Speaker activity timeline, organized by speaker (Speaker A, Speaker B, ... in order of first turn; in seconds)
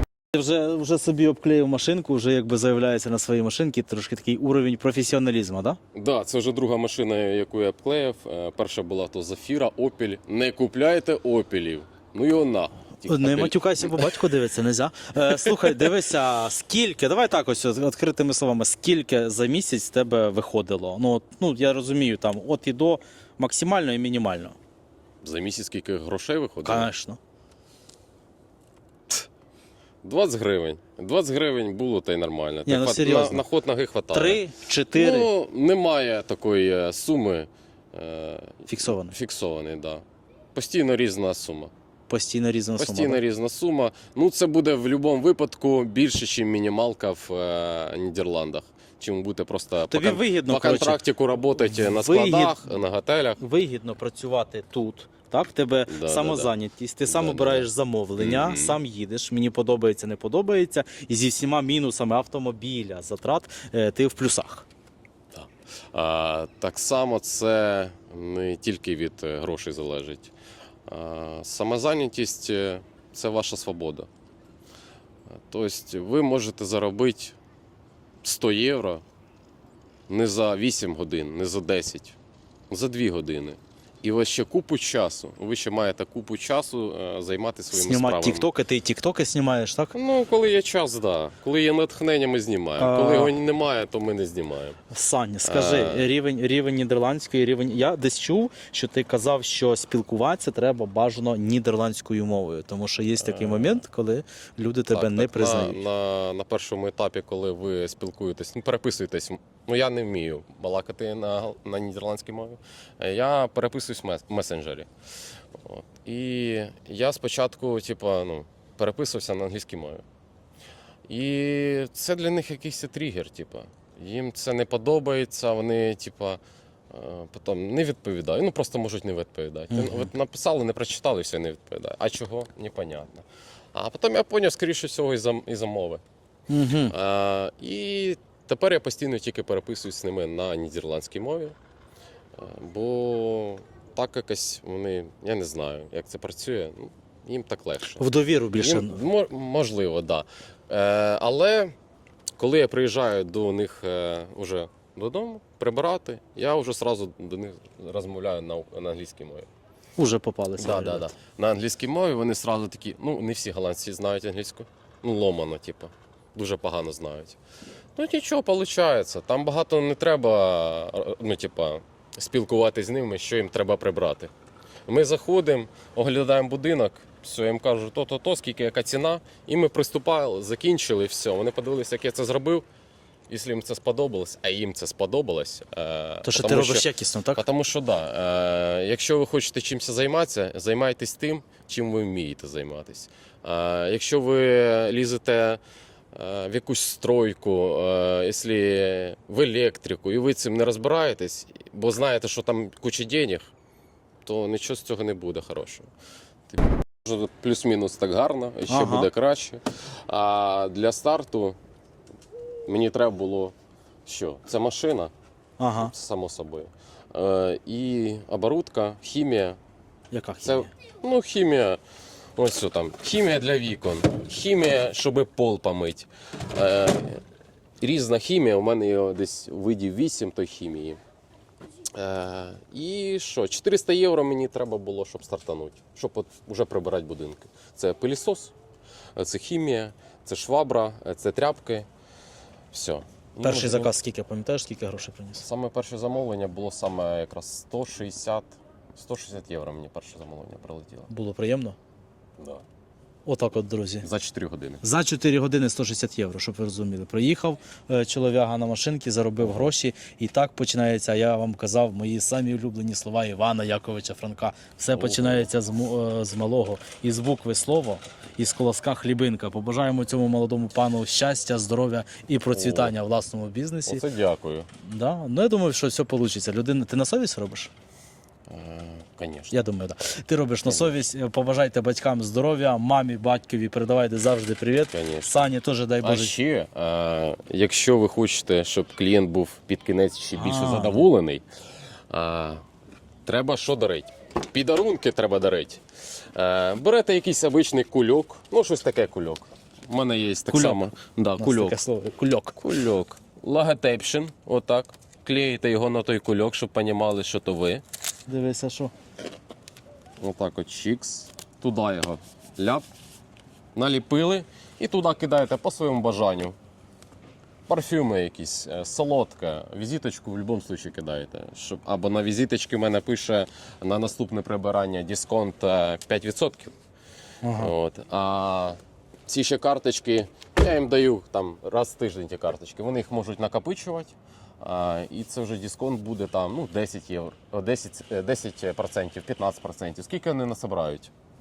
Speaker A: 0.3-5.8, 13.0-24.6, 26.6-27.2, 32.6-33.4, 34.1-35.3, 38.7-39.1, 42.1-43.2, 49.9-51.0, 51.6-52.6, 53.4-64.7, 87.7-89.9, 92.8-93.3, 94.9-105.8, 129.7-130.1, 136.5-136.9, 148.0-149.0, 160.0-161.1, 186.2-187.4, 208.7-209.1, 215.6-215.9, 220.1-220.7, 243.4-245.4, 251.1-251.8, 253.2-254.1, 254.8-274.0, 274.8-277.7, 279.5-286.3, 290.3-291.0, 300.5-300.8, 301.4-302.6, 308.3-308.9, 327.4-327.7
Speaker B: 5.9-14.2, 25.2-26.9, 30.0-34.4, 34.9-40.0, 40.5-41.7, 42.8-53.4, 55.9-56.5, 57.0-58.8, 65.3-70.3, 70.9-74.1, 75.3-77.3, 78.2-79.0, 80.1-82.2, 82.7-88.5, 89.9-94.8, 95.4-96.1, 103.2-103.8, 104.9-114.9, 115.6-120.0, 121.1-136.0, 136.9-141.5, 142.3-151.7, 152.4-159.5, 160.6-167.4, 167.9-174.3, 174.8-182.6, 183.3-195.6, 196.1-203.5, 204.2-205.9, 206.5-211.6, 212.7-213.5, 214.1-215.1, 215.8-219.6, 220.4-221.8, 222.4-227.2, 227.8-231.0, 231.9-238.5, 239.2-241.9, 242.7-243.9, 245.4-251.1, 252.4-252.6, 254.0-254.8, 259.4-259.7, 264.9-265.5, 272.5-272.9, 273.9-274.7, 278.5-279.6, 280.6-280.9, 284.9-285.4, 286.0-291.4, 292.1-292.6, 293.2-295.8, 296.3-301.8, 302.6-307.8, 310.2-312.8, 313.8-316.6, 317.7-326.7, 327.5-341.1